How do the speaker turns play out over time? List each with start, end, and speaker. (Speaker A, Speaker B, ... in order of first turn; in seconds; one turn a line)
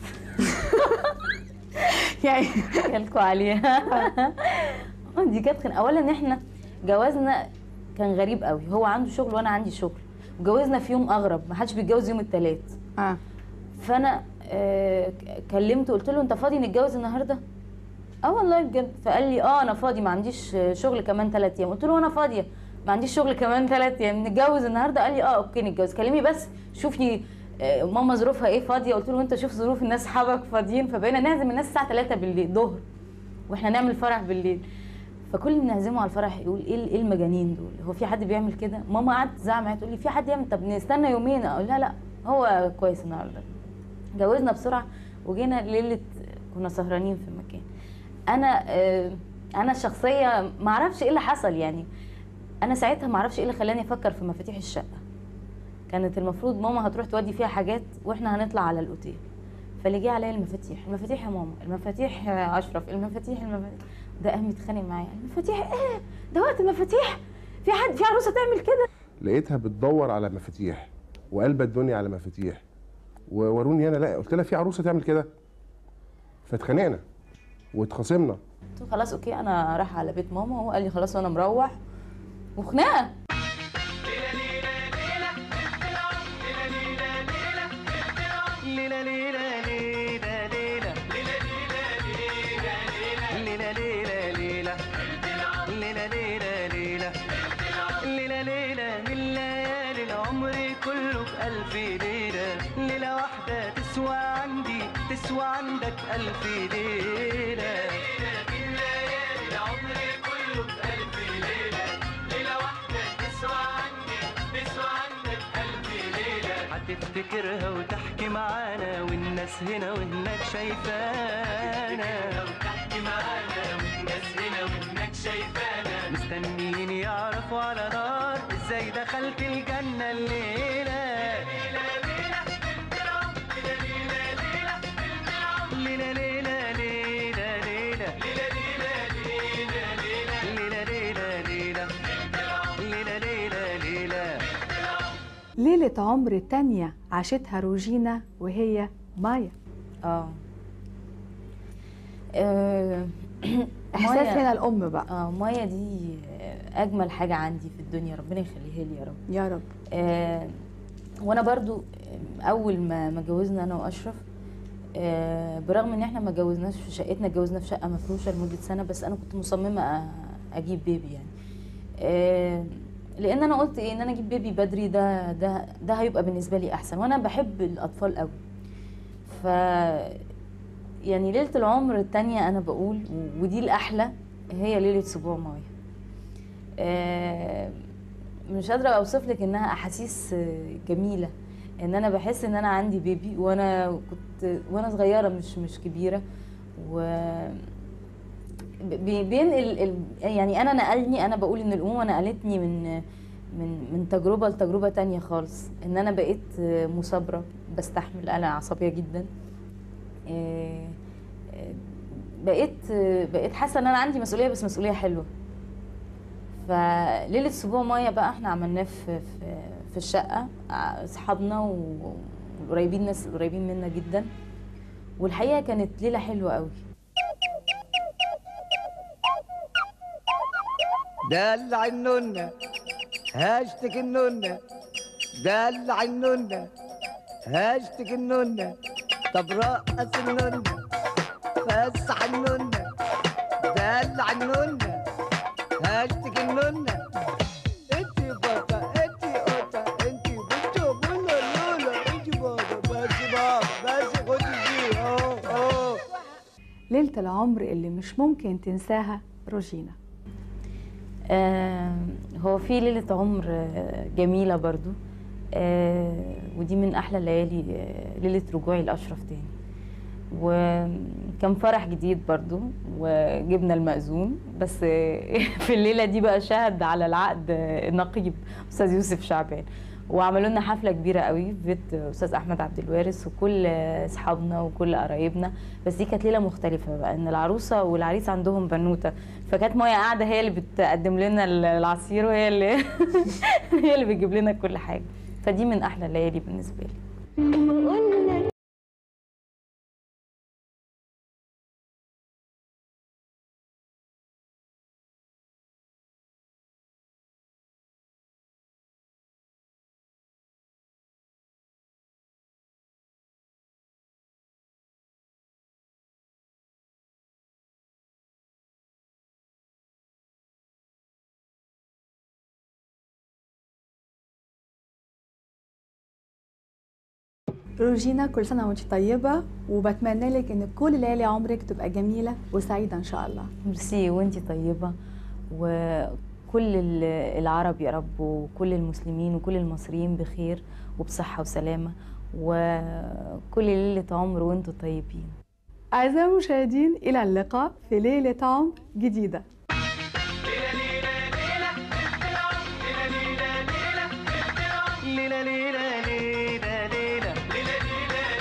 Speaker A: 0.3-12.8
Speaker A: 13.8-17.4
Speaker A: 18.2-32.8
Speaker A: 33.5-34.6
Speaker A: 35.3-43.5
Speaker A: 44.1-47.6
Speaker A: 48.3-51.9
Speaker A: 52.6-55.0
Speaker A: 55.9-59.2
Speaker A: 59.8-68.8
Speaker B: 69.2-72.6
Speaker B: 73.3-75.3
Speaker B: 76.5-77.0
Speaker B: 77.7-78.4
Speaker A: 78.8-81.7
Speaker A: 82.6-83.1
Speaker C: 88.5-91.2
Speaker C: 93.0-108.2
Speaker C: 110.8-111.1
Speaker C: 116.6-122.5
Speaker C: 126.1-131.8
Speaker C: 135.6-138.3
Speaker C: 140.2-141.9
Speaker C: 142.7-144.4
Speaker D: 145.6-149.5
Speaker A: 150.0-150.4
Speaker A: 152.3-154.4
Speaker D: 153.9-155.1
Speaker A: 155.1-159.2
Speaker D: 159.3-159.7
Speaker A: 159.9-160.5
Speaker A: 161.2-164.2
Speaker A: 165.0-171.3
Speaker A: 172.0-178.4
Speaker A: 179.3-180.2
Speaker A: 181.0-185.7
Speaker A: 186.8-187.8
Speaker A: 188.5-196.2
Speaker A: 196.8-197.7
Speaker A: 198.8-203.0
Speaker A: 203.5-209.3
Speaker A: 210.3-211.0
Speaker A: 211.5-215.3
Speaker A: 216.6-224.3
Speaker A: 225.2-226.8
Speaker E: 231.3-232.5
Speaker E: 233.3-234.6
Speaker E: 235.4-236.7
Speaker E: 237.5-238.7
Speaker E: 239.3-240.8
Speaker E: 241.6-242.9
Speaker E: 243.7-245.0
Speaker E: 245.8-247.0
Speaker E: 247.9-256.0
Speaker D: 256.9-259.9
Speaker A: 261.3-264.9
Speaker A: 265.5-269.5
Speaker A: 270.3-297.0
Speaker D: 327.8-333.5
Speaker A: 333.6-334.9
Speaker A: 335.5-345.4
Speaker D: 345.9-349.4
Speaker C: 354.9-357.6